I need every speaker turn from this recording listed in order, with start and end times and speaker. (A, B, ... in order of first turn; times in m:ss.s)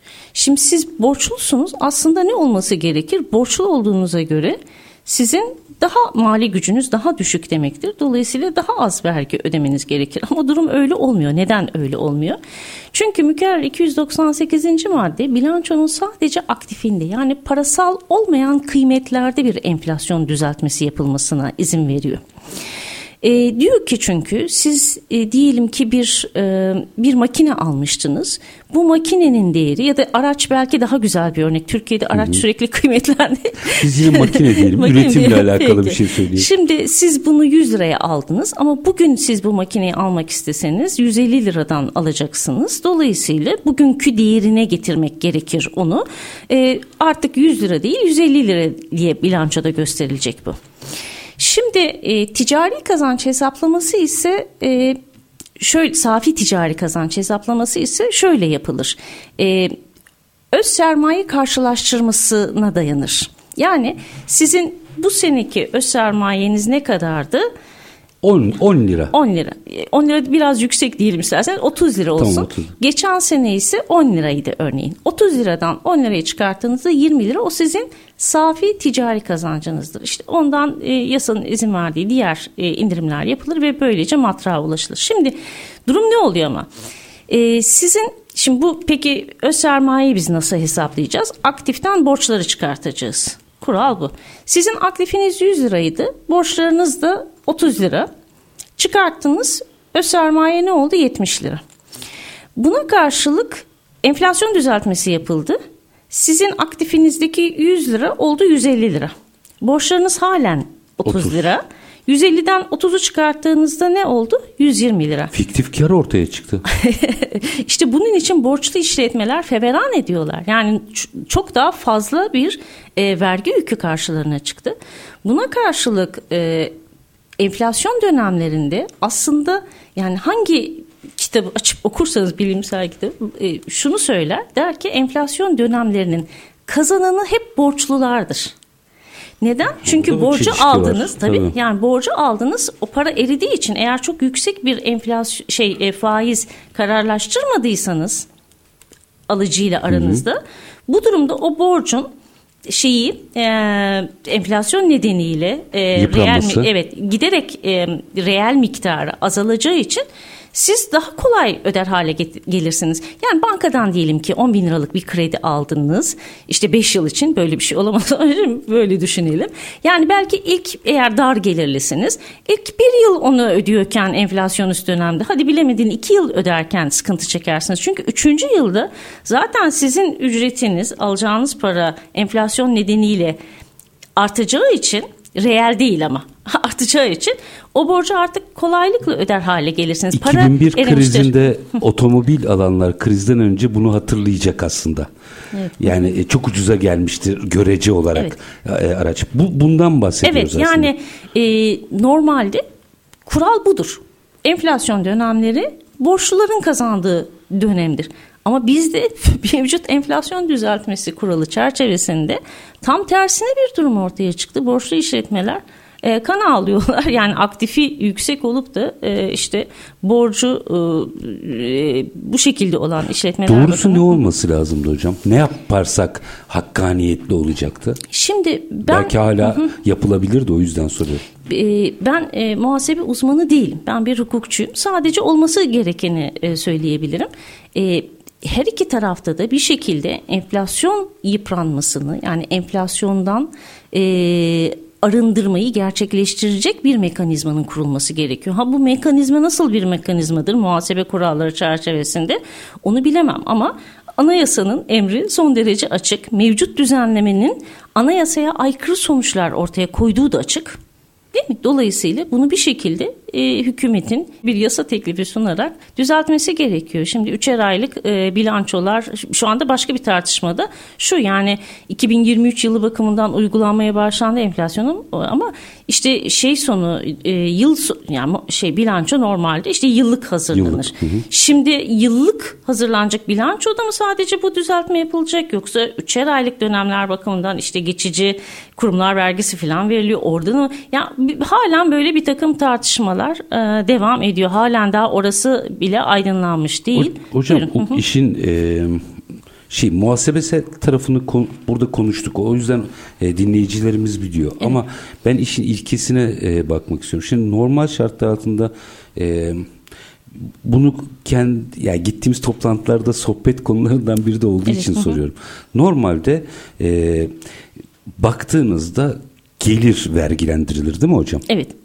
0:00.3-0:12.4 A
0:12.9-0:22.2 A
0:23.2-0:50.6 A
0:32.1-0:32.4 B
0:33.8-0:36.5 B
0:51.4-0:55.0 A
0:55.6-0:59.8 A
1:00.5-1:07.5 A
1:08.2-1:09.1 B
1:09.1-1:26.7 A
1:12.2-1:12.7 B
1:27.3-1:38.1 A
1:38.8-1:41.6 A
1:42.6-1:45.6 A
1:46.1-1:55.3 A
1:51.0-1:51.4 B
1:55.3-1:56.6 B
1:56.7-2:06.7 A
2:07.4-2:18.5 A
2:19.4-2:28.2 A
2:19.8-2:21.5 B
2:29.3-2:32.1 A
2:29.9-2:30.2 B
2:32.6-3:03.4 A
2:35.9-2:36.7 B
3:04.2-3:11.4 A
3:10.1-3:15.1 B
3:15.5-3:15.9 A
3:15.8-3:20.9 B
3:20.2-3:22.6 A
3:23.2-3:44.2 A
3:43.4-3:48.0 B
3:48.1-3:49.7 A
3:48.8-3:51.2 B
3:51.4-4:20.8 A
4:21.3-4:58.0 A
4:40.5-4:41.2 B
4:56.9-4:59.0 B
4:59.7-5:09.6 B
5:10.6-5:17.3 B
5:14.7-5:15.2 A
5:18.2-5:21.4 B
5:21.5-5:21.7 A